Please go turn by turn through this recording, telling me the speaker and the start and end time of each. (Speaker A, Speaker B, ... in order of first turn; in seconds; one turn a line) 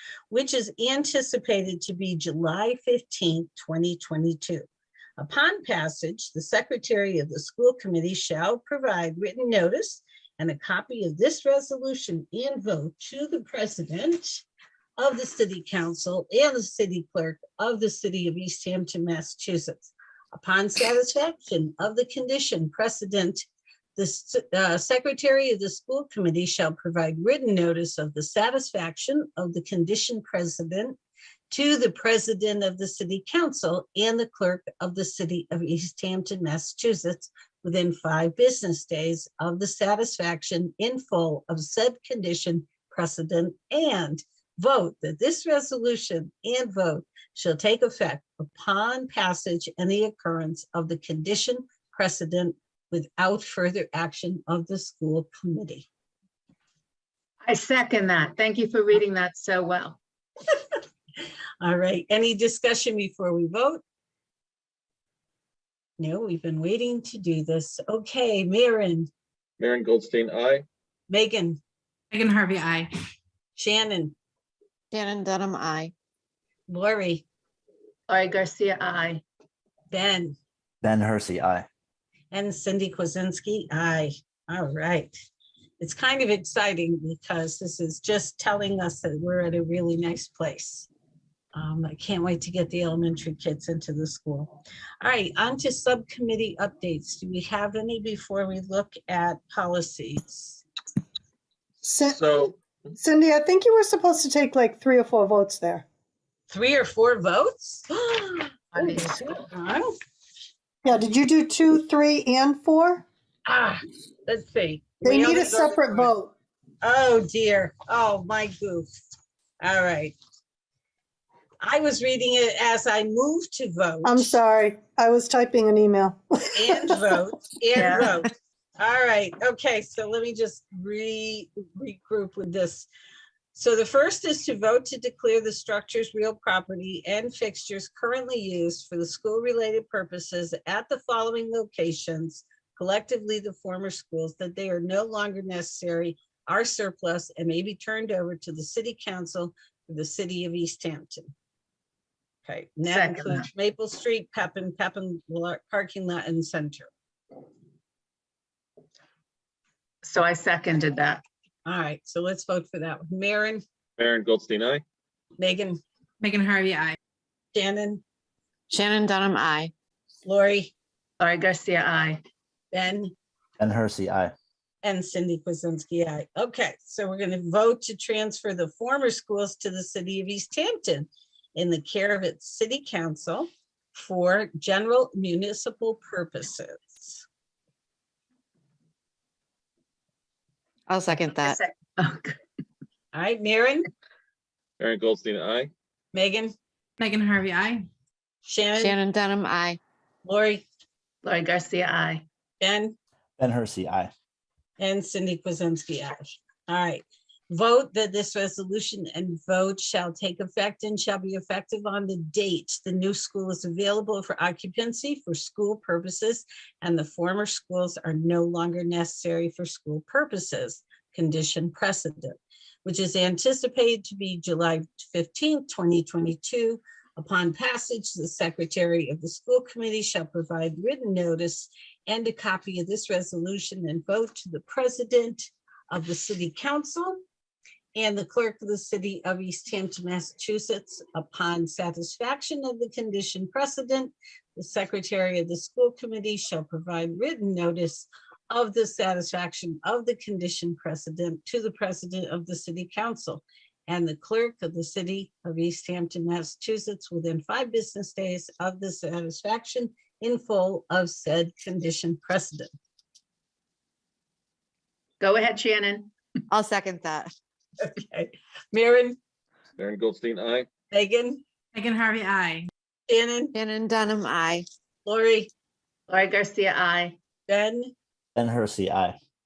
Speaker A: 0.3-4.7
Speaker A: 5.2-14.4
Speaker A: 15.0-31.0
Speaker A: 31.5-55.9
Speaker B: 57.4-60.0
Speaker A: 61.6-63.8
Speaker A: 66.0-69.1
Speaker C: 69.6-70.6
Speaker A: 71.1-71.6
Speaker D: 72.1-72.9
Speaker A: 73.5-74.1
Speaker E: 74.9-75.9
Speaker A: 76.7-77.2
Speaker B: 78.1-79.2
Speaker A: 79.9-80.3
Speaker F: 80.8-81.7
Speaker A: 82.3-85.1
Speaker A: 85.8-90.9
Speaker A: 91.5-100.6
Speaker G: 101.8-105.8
Speaker A: 106.5-109.9
Speaker B: 108.8-109.0
Speaker G: 110.8-113.0
Speaker A: 113.5-116.1
Speaker G: 115.0-116.3
Speaker A: 116.8-118.9
Speaker A: 119.6-120.1
Speaker A: 121.6-124.3
Speaker G: 124.0-127.1
Speaker A: 126.5-132.9
Speaker B: 127.8-128.1
Speaker A: 133.5-151.3
Speaker A: 152.4-156.9
Speaker B: 152.8-153.4
Speaker B: 160.0-161.2
Speaker A: 161.6-163.6
Speaker C: 164.0-164.8
Speaker A: 165.4-165.8
Speaker D: 166.2-167.0
Speaker A: 167.5-168.0
Speaker E: 168.7-169.7
Speaker A: 170.2-170.7
Speaker B: 171.2-172.2
Speaker A: 172.7-173.1
Speaker F: 173.6-174.3
Speaker A: 174.8-187.2
Speaker E: 190.9-191.6
Speaker B: 191.3-192.4
Speaker A: 193.1-193.9
Speaker C: 194.8-195.7
Speaker A: 196.1-196.5
Speaker D: 197.0-197.8
Speaker A: 198.4-199.0
Speaker E: 198.8-199.8
Speaker A: 200.2-200.6
Speaker B: 201.2-202.2
Speaker A: 202.6-202.9
Speaker F: 203.4-204.1
Speaker A: 204.8-237.2
Speaker A: 237.9-262.7
Speaker B: 265.2-266.1
Speaker E: 266.5-267.3
Speaker A: 267.8-269.2
Speaker C: 269.8-270.7
Speaker A: 270.9-271.4
Speaker D: 271.7-272.7
Speaker A: 273.1-273.5
Speaker E: 273.5-274.6
Speaker A: 275.0-275.5
Speaker B: 276.1-277.1
Speaker A: 277.5-277.9
Speaker F: 278.4-279.2